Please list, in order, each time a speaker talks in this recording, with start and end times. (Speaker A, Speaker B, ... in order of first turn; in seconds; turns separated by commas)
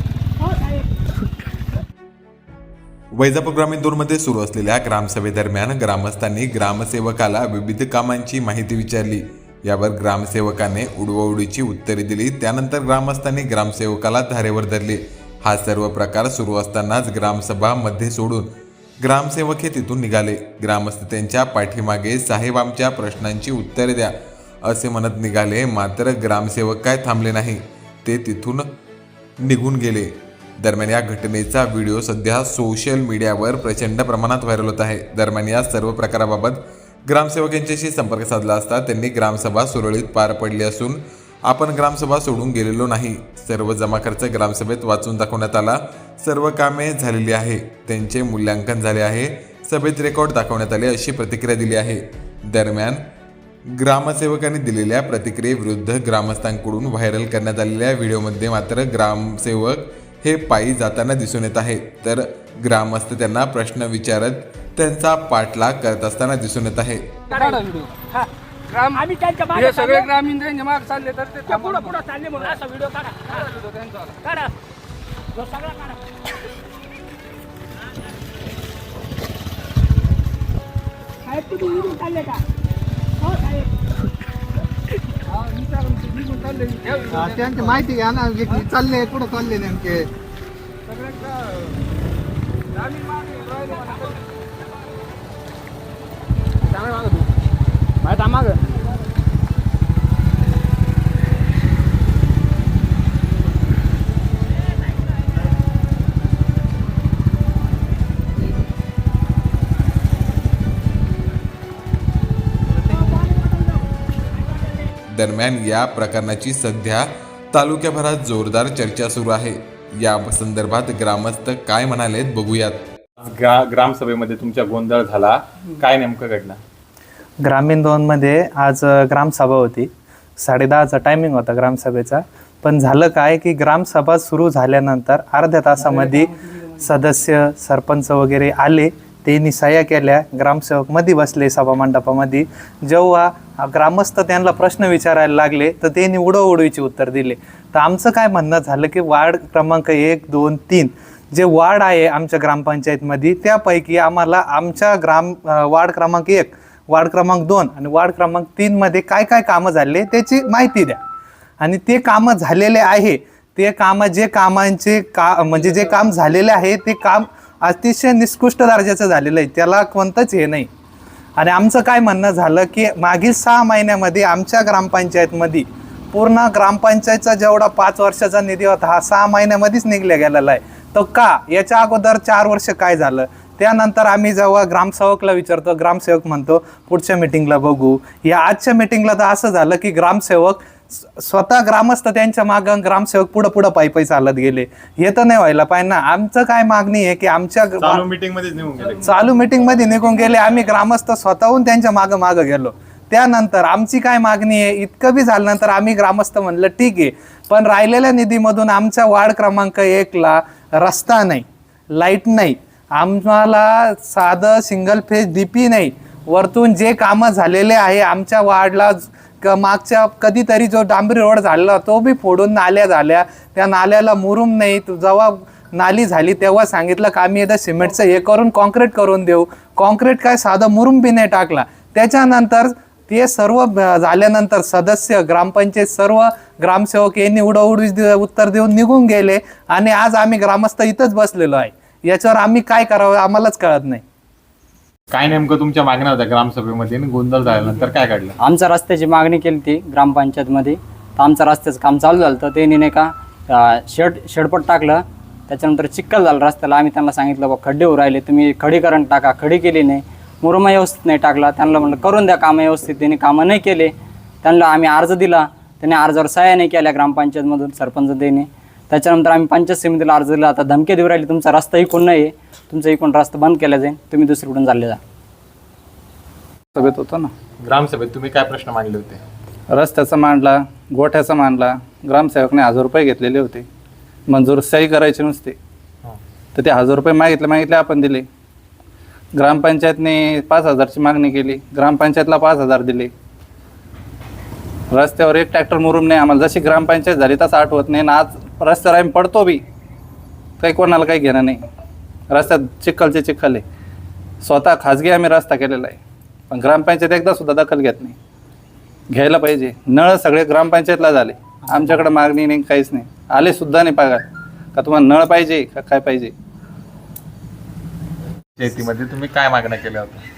Speaker A: 3.1-18.5, Speaker A: 19.0-24.1, Speaker A: 24.6-28.7, Speaker A: 29.4-53.0, Speaker A: 53.7-67.2, Speaker B: 68.7-69.0, Speaker C: 69.0-70.2, Speaker B: 69.6-71.5, Speaker C: 71.5-72.7, Speaker C: 81.3-82.4, Speaker C: 83.3-83.5, Speaker B: 85.8-87.0, Speaker D: 87.2-90.0, Speaker B: 93.0-94.1, Speaker A: 115.1-122.8, Speaker E: 123.2-126.6, Speaker F: 127.4-161.0, Speaker F: 161.6-170.7, Speaker F: 171.4-198.0, Speaker E: 197.8-199.2, Speaker F: 199.0-244.0, Speaker E: 245.1-248.3, Speaker G: 248.4-263.9, Speaker G: 264.4-275.0, Speaker H: 276.7-277.3, Speaker E: 277.6-279.2, Speaker H: 279.7-283.6, Speaker H: 284.3-285.5, Speaker H: 286.5-288.2, Speaker H: 289.3-293.1, Speaker H: 294.9-299.6, Speaker H: 300.6-301.6, Speaker H: 302.3-303.6, Speaker H: 304.4-306.0, Speaker H: 306.5-308.2, Speaker H: 309.1-316.3, Speaker E: 318.6-320.2